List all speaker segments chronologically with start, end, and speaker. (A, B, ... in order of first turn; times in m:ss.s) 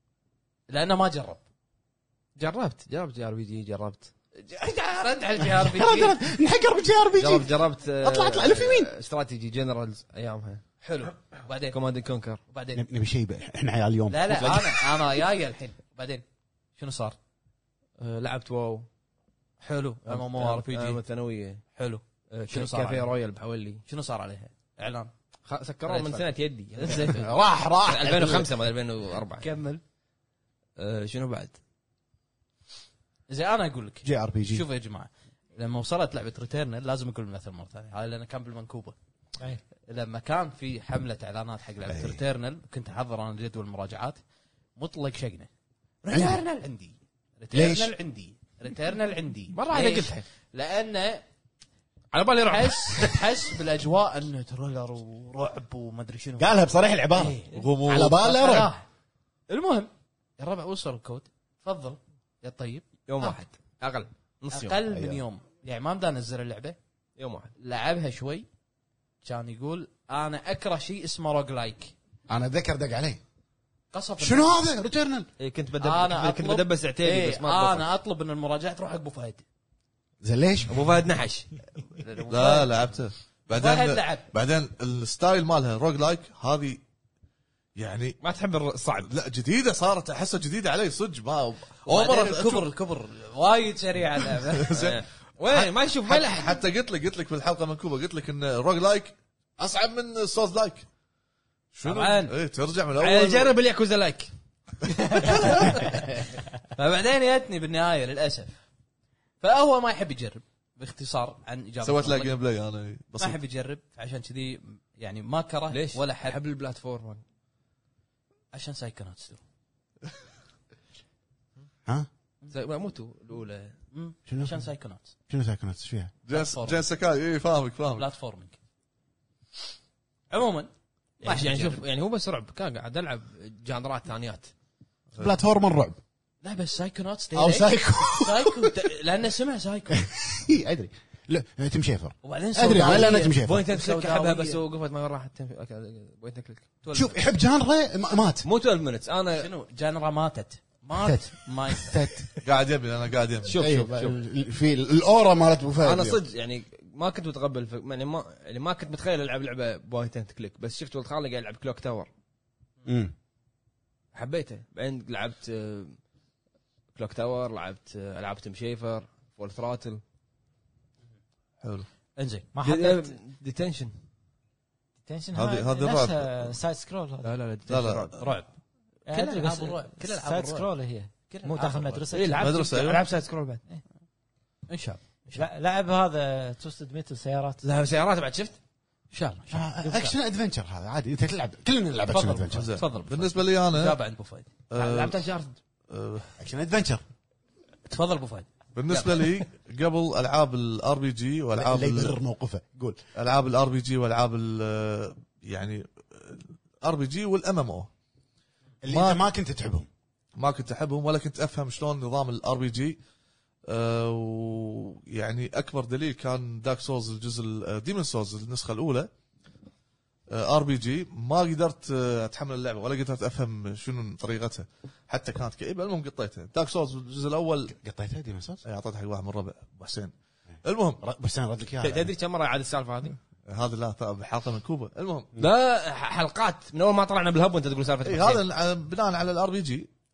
0:00.7-0:01.4 A
0:02.4-0:04.1 B
0:04.4-0:06.2 A
0:05.4-0:08.9 C
0:07.2-0:10.6 B
0:10.8-0:11.8 A
0:11.7-0:12.4 B
0:12.5-0:12.8 A
0:12.7-0:15.0 C
0:14.1-0:16.2 A
0:16.8-0:17.2 A
0:18.0-0:18.9 B
0:19.6-0:21.0 A
0:20.1-0:21.6 B
0:21.7-0:23.1 A
0:22.3-0:23.8 B
0:23.9-0:25.1 A
0:25.4-0:27.2 B
0:25.9-0:26.2 A
0:26.8-0:27.2 A
0:26.9-0:28.5 C
0:27.8-0:29.4 B
0:29.4-0:29.8 A
0:30.8-0:31.6 B
0:33.3-0:39.0 A
0:34.0-0:34.6 C
0:39.9-0:44.2 A
0:41.9-0:42.2 C
0:44.8-0:45.5 A
0:46.0-0:51.2 A
0:46.1-0:46.4 C
0:47.5-0:47.9 C
0:49.5-0:50.2 B
0:52.1-0:53.1 B
0:52.4-0:56.5 A
0:56.4-0:58.7 C
0:57.1-0:58.8 A
0:57.5-0:58.2 D
0:59.5-1:03.4 A
1:03.1-1:04.8 B
1:04.5-1:06.8 A
1:04.9-1:05.2 C
1:07.2-1:07.5 B
1:07.6-1:08.5 A
1:09.2-1:11.9 A
1:12.3-1:13.2 C
1:13.9-1:14.6 A
1:14.2-1:15.3 C
1:15.4-1:17.8 B
1:15.8-1:19.4 A
1:20.2-1:20.9 C
1:20.7-1:21.5 B
1:21.9-1:22.7 A
1:22.3-1:26.8 D
1:23.5-1:24.2 A
1:27.8-1:28.2 D
1:28.2-1:29.1 B
1:29.0-1:32.6 D
1:31.8-1:34.9 A
1:34.6-1:35.0 D
1:34.7-1:36.6 B
1:35.5-1:40.8 D
1:41.7-1:43.5 D
1:41.8-1:42.3 A
1:43.0-1:44.3 B
1:44.9-1:48.6 A
1:45.2-1:45.9 B
1:49.4-1:52.4 A
1:51.8-1:53.4 D
1:53.2-1:56.4 A
1:55.7-1:57.2 B
1:58.5-1:59.4 A
2:02.5-2:03.8 B
2:03.9-2:05.1 A
2:04.3-2:04.6 C
2:05.3-2:06.1 C
2:06.2-2:08.1 D
2:06.3-2:06.8 A
2:08.0-2:08.6 A
2:10.3-2:11.8 A
2:11.2-2:14.5 B
2:15.2-2:16.0 C
2:16.4-2:20.1 A
2:17.3-2:18.8 C
2:19.9-2:23.6 C
2:22.2-2:24.6 A
2:23.0-2:26.6 B
2:26.8-2:27.2 A
2:26.9-2:28.4 C
2:28.4-2:29.5 B
2:29.3-2:32.0 A
2:31.0-2:32.3 C
2:32.4-2:33.6 D
2:33.4-2:34.2 B
2:33.6-2:36.2 C
2:35.8-2:42.1 B
2:42.8-2:43.1 C
2:44.1-2:46.0 B
2:46.9-2:50.0 B
2:51.6-2:51.9 D
2:52.2-2:52.5 A
2:52.5-2:53.0 E
2:52.6-2:53.9 B
2:55.0-2:57.4 E
2:55.3-2:56.5 D
2:57.2-2:58.2 B
2:57.7-2:58.3 D
2:58.2-2:58.5 A
2:59.1-3:02.6 E
2:59.1-3:00.7 A
3:01.3-3:02.0 A
3:02.1-3:03.6 B
3:02.4-3:03.0 D
3:04.7-3:05.4 A
3:05.3-3:07.6 E
3:07.6-3:08.6 B
3:09.1-3:10.2 A
3:09.5-3:12.7 C
3:12.1-3:14.7 A
3:12.5-3:14.0 D
3:14.7-3:15.2 D
3:14.8-3:15.6 B
3:15.9-3:16.3 D
3:16.4-3:17.0 C
3:17.9-3:19.2 A
3:18.7-3:22.2 D
3:21.5-3:23.0 C
3:23.2-3:27.9 D
3:28.8-3:29.9 C
3:28.9-3:29.2 D
3:30.4-3:33.0 D
3:33.7-3:39.1 D
3:40.3-3:47.7 D
3:47.7-3:48.6 C
3:48.6-3:50.1 D
3:50.6-3:51.0 D
3:51.0-3:52.1 C
3:51.8-3:53.2 B
3:53.4-3:55.3 D
3:55.4-3:58.4 B
3:58.0-3:59.9 D